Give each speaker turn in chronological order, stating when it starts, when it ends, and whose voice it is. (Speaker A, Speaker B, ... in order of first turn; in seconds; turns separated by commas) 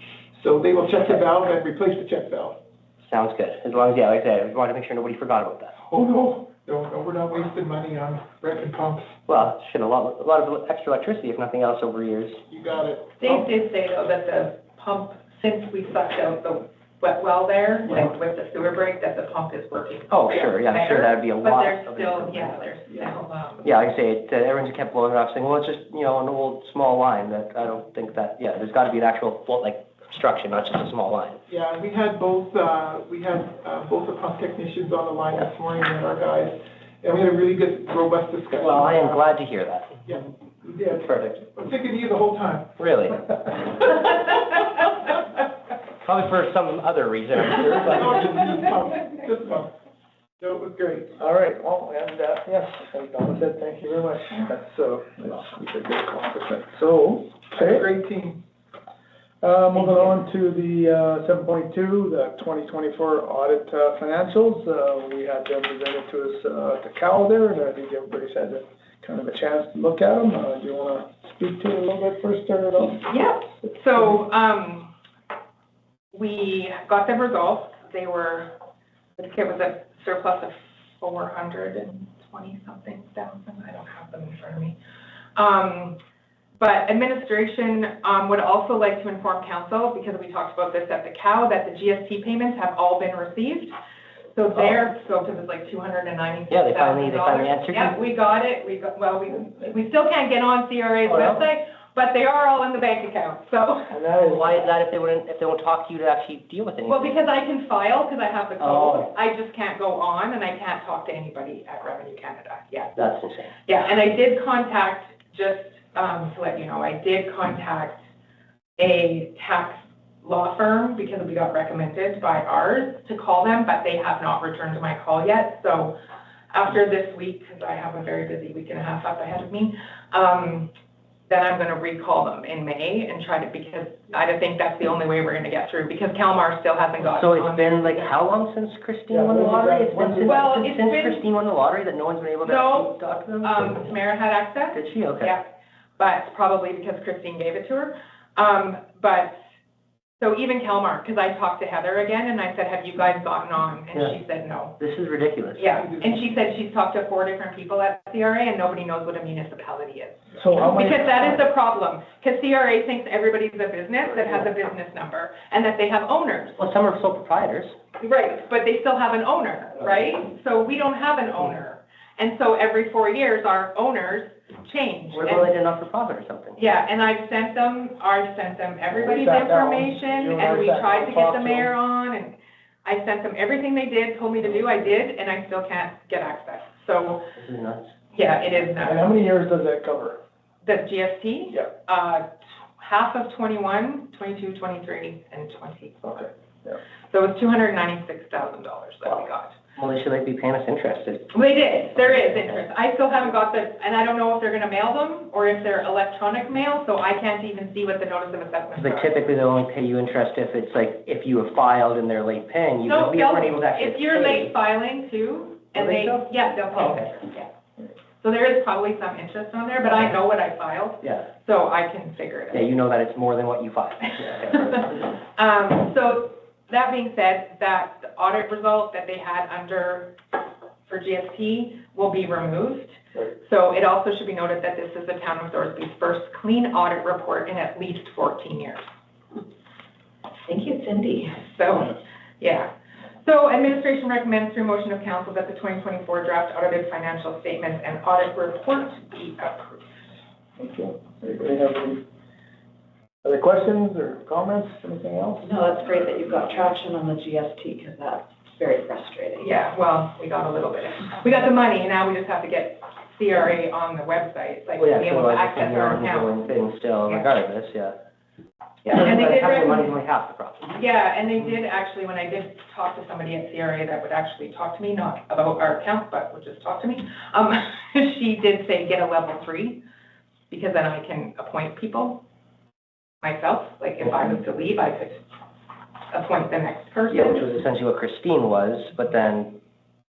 Speaker A: 0.3-2.6, Speaker B: 3.0-5.7, Speaker A: 5.8-9.2, Speaker B: 9.3-12.4, Speaker A: 12.5-13.5, Speaker C: 13.2-23.7, Speaker B: 20.1-22.6, Speaker B: 23.6-31.4, Speaker A: 31.5-39.2, Speaker B: 38.5-40.0, Speaker A: 40.0-42.8, Speaker B: 40.9-41.5, Speaker B: 42.8-43.3, Speaker B: 46.0-48.2, Speaker A: 47.6-49.7, Speaker A: 50.4-51.1, Speaker D: 51.1-57.9, Speaker A: 57.5-58.4, Speaker D: 59.4-73.1, Speaker C: 73.0-74.9, Speaker C: 76.1-78.5, Speaker C: 79.2-84.8, Speaker C: 85.4-86.0, Speaker C: 86.6-93.7, Speaker C: 94.3-104.0, Speaker B: 96.5-98.0, Speaker B: 101.0-101.4, Speaker D: 103.9-104.7, Speaker B: 104.2-107.1, Speaker C: 106.8-113.0, Speaker B: 108.6-109.1, Speaker B: 113.0-113.5, Speaker C: 113.7-118.0, Speaker C: 118.8-126.0, Speaker C: 126.5-130.7, Speaker C: 131.3-138.1, Speaker B: 137.0-144.0, Speaker D: 139.1-140.4, Speaker C: 140.2-141.2, Speaker C: 142.4-145.4, Speaker B: 144.7-145.3, Speaker C: 146.0-149.4, Speaker C: 150.2-154.8, Speaker B: 154.8-155.7, Speaker C: 155.6-166.6, Speaker D: 160.3-161.4, Speaker B: 166.6-167.8, Speaker C: 168.0-175.6, Speaker B: 175.1-176.6, Speaker C: 176.6-187.3, Speaker D: 178.9-181.7, Speaker B: 184.4-184.8, Speaker B: 187.4-187.9, Speaker C: 188.1-189.1, Speaker D: 188.8-190.2, Speaker C: 190.6-192.3, Speaker C: 192.8-196.3, Speaker D: 196.2-196.8, Speaker C: 197.1-199.6, Speaker B: 199.8-201.3, Speaker C: 201.3-209.2, Speaker B: 208.8-214.5, Speaker C: 212.8-217.5, Speaker B: 215.8-217.1, Speaker C: 218.2-222.7, Speaker B: 221.0-221.3, Speaker B: 222.5-225.1, Speaker C: 224.2-230.2, Speaker C: 230.9-238.8, Speaker E: 240.5-241.4, Speaker C: 241.3-242.7, Speaker C: 243.2-249.9, Speaker D: 250.6-252.0, Speaker D: 253.2-256.7, Speaker E: 255.4-259.5, Speaker C: 259.4-266.4, Speaker B: 264.8-267.9, Speaker B: 268.8-270.8, Speaker C: 268.9-270.0, Speaker C: 270.7-279.8, Speaker C: 280.5-282.2, Speaker C: 283.2-285.2, Speaker C: 286.1-287.5, Speaker B: 287.1-289.6